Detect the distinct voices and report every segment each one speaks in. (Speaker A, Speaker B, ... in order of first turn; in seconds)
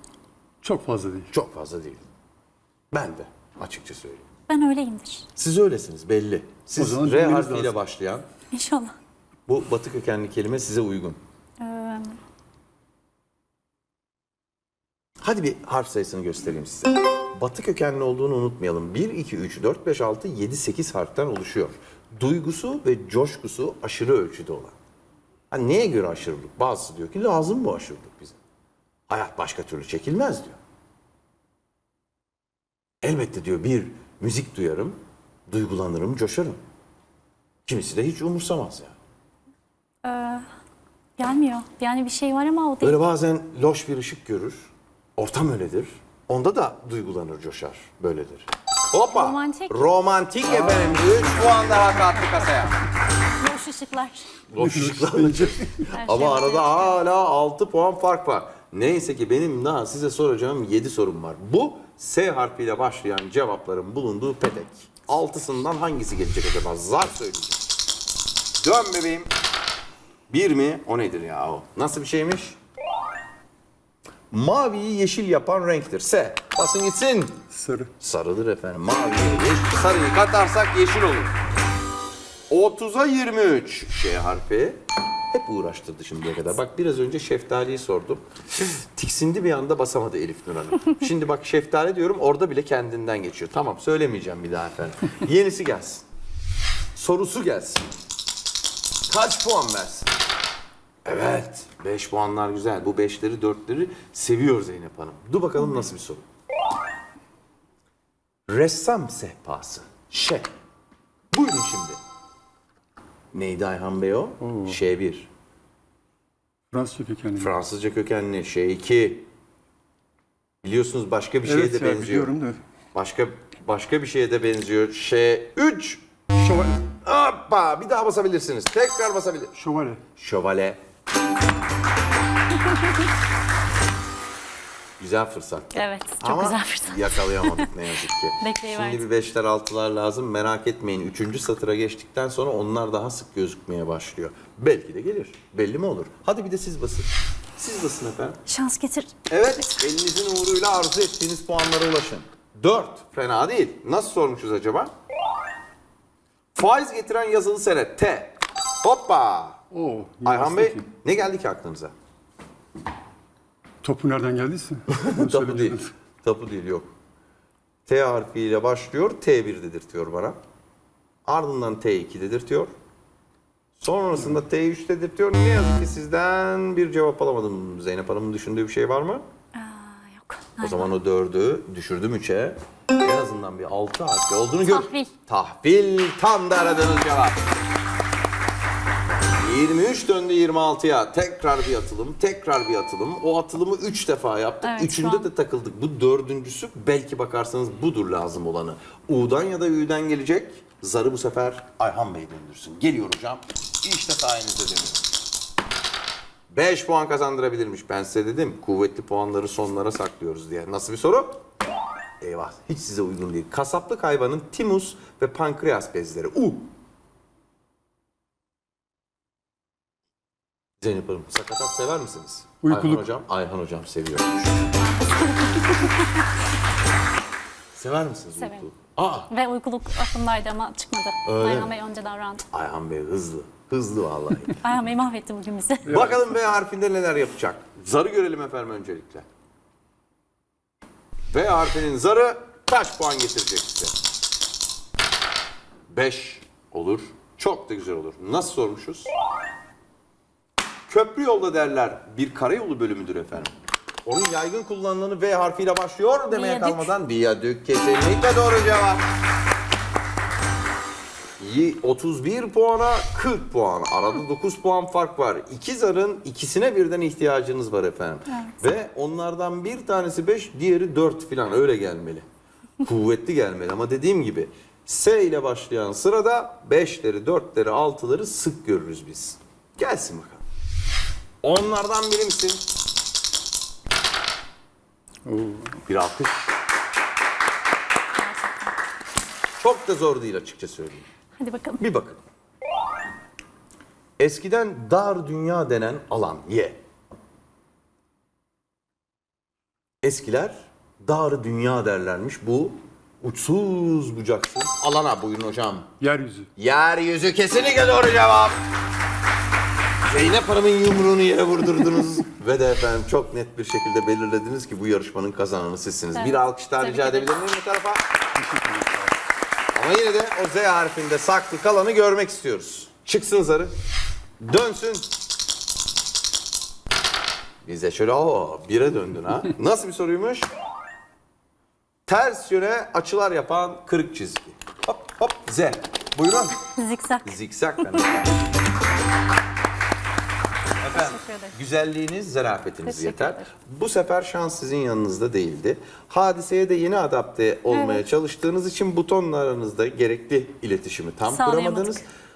Speaker A: 0.6-1.3, 6.8-7.8, 50.5-51.3, 54.6-55.7, 77.5-77.9, 114.4-114.8, 116.7-117.5, 121.4-122.6, 126.3-126.8, 129.6-130.0, 159.7-160.9, 163.8-165.9, 222.6-223.0, 235.9-236.2, 285.2-285.8, 306.0-306.5, 318.4-319.1
Speaker B: 1.3-2.0, 2.9-4.2, 5.4-8.3, 9.5-11.2, 15.2-24.8, 25.5-28.4, 29.1-30.6, 33.0-35.0, 35.5-36.6, 37.7-39.0, 42.8-52.8, 54.5-67.7, 68.6-69.3, 70.3-72.6, 74.3-77.4, 78.0-81.3, 82.5-96.0, 96.9-97.9, 99.1-100.1, 101.0-106.2, 108.5-110.5, 111.3-112.0, 113.3-115.3, 117.4-119.2, 120.6-122.3, 122.9-126.0, 127.0-129.5, 130.2-130.8, 135.0-148.4, 149.3-154.9, 156.6-159.6, 160.2-161.9, 164.9-166.9, 167.9-170.4, 171.2-172.7, 173.8-179.2, 180.6-187.4, 189.4-205.1, 206.5-211.4, 212.2-216.7, 220.8-224.7, 227.7-229.3, 231.2-231.8, 232.5-234.6, 235.8-239.3, 241.3-243.9, 245.9-249.1, 250.9-253.5, 254.1-259.0, 261.4-272.2, 272.8-280.4, 281.4-282.6, 285.9-286.5, 289.6-291.1, 291.8-292.2, 294.2-296.8, 300.0-305.9, 306.6-308.6, 310.1-318.0, 319.8-323.7, 324.4-325.1, 327.6-330.5, 332.1-336.6, 337.2-338.4, 340.8-352.1
Speaker C: 4.5-5.3, 8.5-8.9, 11.6-12.2, 40.0-40.5, 41.2-43.0, 49.1-49.8, 53.4-54.3, 55.9-57.0, 135.7-137.7, 138.4-139.0, 148.5-149.1, 179.6-180.9, 184.6-185.1, 194.6-195.3, 224.8-226.1, 228.4-228.7, 229.3-232.4, 234.6-235.9, 256.3-256.9, 288.2-288.8, 291.4-291.8, 316.1-317.3, 336.7-337.3, 340.9-341.6, 342.8-343.5, 347.7-348.0, 351.3-352.0